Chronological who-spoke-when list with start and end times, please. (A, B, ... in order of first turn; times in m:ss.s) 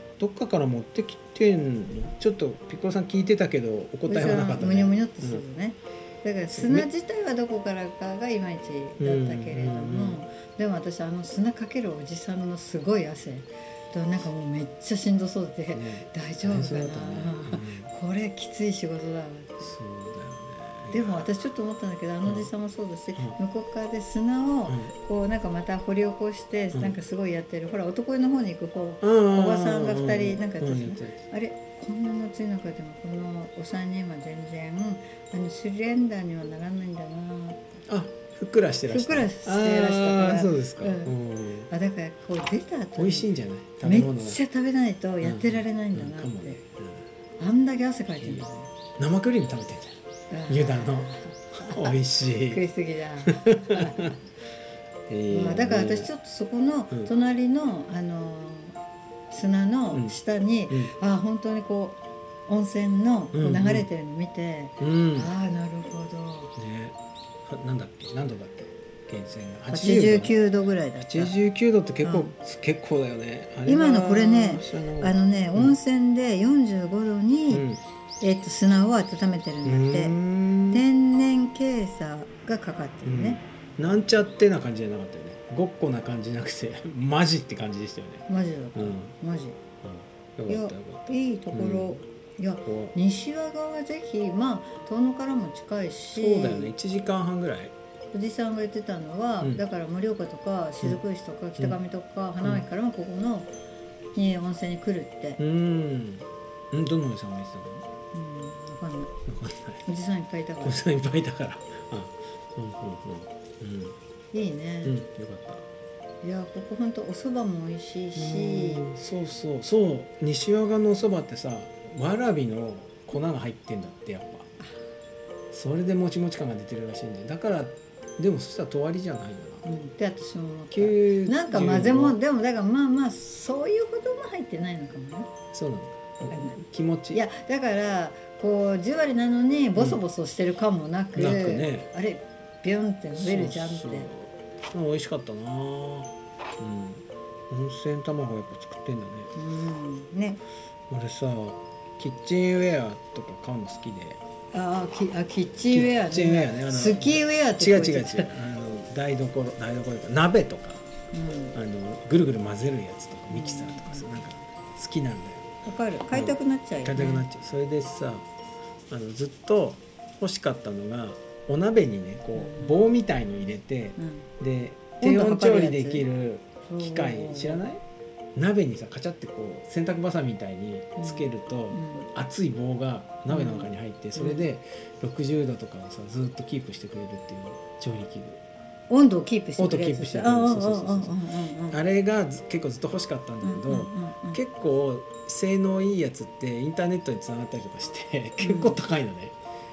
0:00.2-0:05.4 A
0:04.1-0:19.7 B
0:06.5-0:06.9 A
0:09.0-0:10.2 A
0:15.7-0:17.9 A
0:19.6-0:21.3 A
0:20.9-0:37.6 B
0:24.7-0:24.9 A
0:29.0-0:31.2 A
0:37.9-0:41.7 A
0:38.9-0:41.2 B
0:41.7-0:43.3 B
0:43.0-0:44.4 A
0:43.8-0:46.6 B
0:45.2-0:47.0 A
0:47.4-0:48.7 B
0:48.2-0:48.5 A
0:49.0-0:52.6 A
0:50.3-0:54.1 B
0:53.3-0:54.1 A
0:55.1-0:56.1 A
0:55.3-0:58.8 B
0:59.3-1:06.5 B
1:03.3-1:03.9 A
1:04.8-1:05.3 A
1:06.6-1:10.4 A
1:09.7-1:11.4 B
1:11.0-1:15.8 A
1:12.0-1:12.3 B
1:13.7-1:17.6 B
1:17.5-1:17.8 A
1:18.2-1:20.2 B
1:19.6-1:20.8 A
1:20.7-1:23.4 B
1:23.0-1:29.1 A
1:28.3-1:29.6 B
1:29.8-1:32.0 A
1:30.5-1:36.7 B
1:32.7-1:33.0 A
1:36.1-1:37.7 A
1:38.1-1:43.5 B
1:44.2-1:45.4 B
1:45.4-1:47.8 A
1:48.1-1:49.1 B
1:49.3-1:49.8 A
1:49.9-1:50.8 B
1:50.6-1:54.0 A
1:54.3-1:55.0 B
1:54.8-1:55.6 A
1:56.2-1:58.9 B
1:58.2-2:04.5 A
2:05.5-2:09.6 A
2:09.6-2:15.3 B
2:10.7-2:12.2 A
2:15.5-2:17.2 A
2:16.3-2:16.6 B
2:17.1-2:24.1 B
2:19.8-2:20.0 A
2:21.2-2:21.9 A
2:23.1-2:29.3 A
2:29.4-2:30.4 B
2:30.9-2:34.2 A
2:34.5-2:38.3 B
2:35.7-2:40.8 A
2:41.1-2:41.6 B
2:41.6-2:45.5 A
2:43.3-2:44.3 B
2:45.6-2:47.2 B
2:46.1-2:48.3 A
2:48.9-2:57.8 A
2:52.4-2:52.9 B
2:54.0-2:54.3 B
2:55.0-2:56.1 B
2:56.7-2:57.6 B
2:58.4-3:08.4 A
3:01.0-3:02.1 B
3:03.3-3:04.5 B
3:08.9-3:11.8 B
3:09.6-3:19.4 A
3:13.4-3:14.4 B
3:18.4-3:18.8 B